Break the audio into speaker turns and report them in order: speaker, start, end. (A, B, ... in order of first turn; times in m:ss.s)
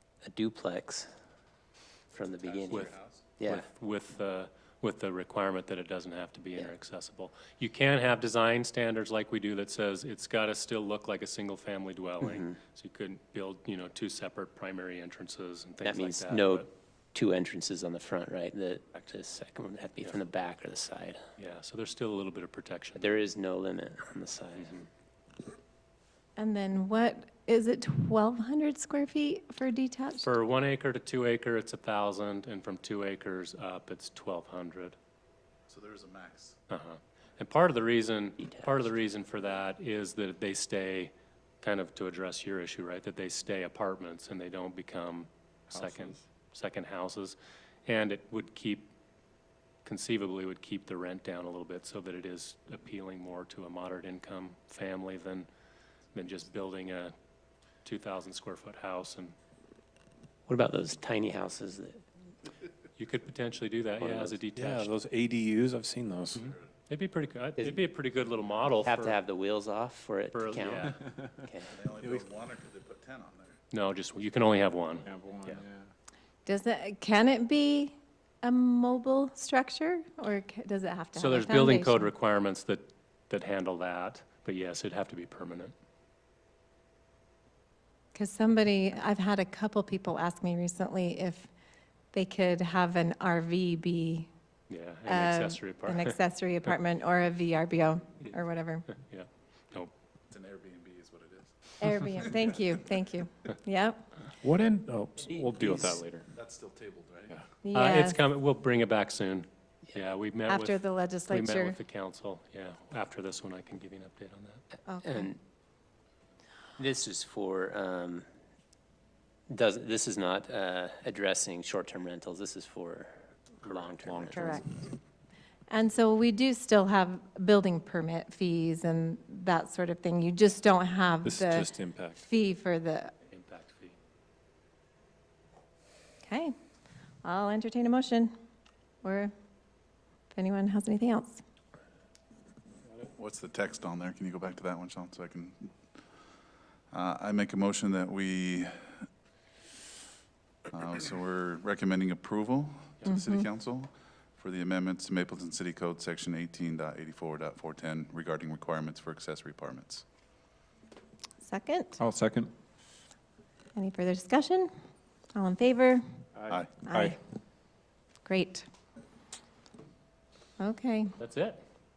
0:00.2-0:01.1 A
0:02.1-0:03.6 A
0:02.4-0:03.2 B
0:03.4-0:16.7 C
0:12.2-0:12.6 A
0:15.8-0:21.2 A
0:21.4-0:23.1 C
0:23.0-0:24.9 A
0:26.4-0:30.3 D
0:30.2-0:35.0 C
0:35.7-0:36.6 B
0:36.7-0:48.9 C
0:45.7-0:46.1 E
0:49.8-0:55.5 C
0:56.1-0:57.1 C
0:57.8-0:59.4 C
1:00.5-1:02.0 A
1:03.0-1:04.9 C
1:04.0-1:04.3 A
1:04.6-1:06.4 E
1:06.4-1:06.6 B
1:06.4-1:09.2 C
1:08.8-1:11.8 A
1:10.3-1:11.0 C
1:11.7-1:13.6 B
1:13.7-1:15.6 C
1:15.0-1:15.9 E
1:16.4-1:22.1 D
1:21.2-1:25.7 C
1:28.1-1:31.5 D
1:32.1-1:34.3 D
1:34.7-1:36.2 C
1:35.1-1:38.9 D
1:38.2-1:39.9 C
1:40.3-1:42.5 B
1:41.8-1:44.2 D
1:44.4-1:46.3 E
1:45.3-1:46.0 A
1:46.3-1:47.4 B
1:47.6-1:48.2 D
1:47.7-1:54.6 C
1:50.5-1:51.8 D
1:54.9-1:55.3 D
1:55.0-1:55.4 A
1:56.8-1:58.2 A
1:59.5-2:04.6 A
2:04.3-2:04.7 D
2:05.7-2:11.7 D
2:11.2-2:12.2 E
2:12.2-2:13.1 D
2:13.3-2:14.0 C
2:16.2-2:16.5 D
2:17.2-2:18.3 D
2:19.0-2:19.3 D
2:20.3-2:21.4 D
2:23.1-2:25.7 B
2:26.9-2:29.0 B
2:30.7-2:40.0 B
2:33.1-2:33.4 D
2:41.4-2:42.0 D
2:42.0-2:42.5 E
2:43.7-2:44.7 D
2:45.3-2:46.0 D
2:46.3-2:47.2 E
2:46.8-2:47.2 D
2:48.2-2:48.6 D
2:50.6-2:51.1 D
2:51.2-2:51.6 C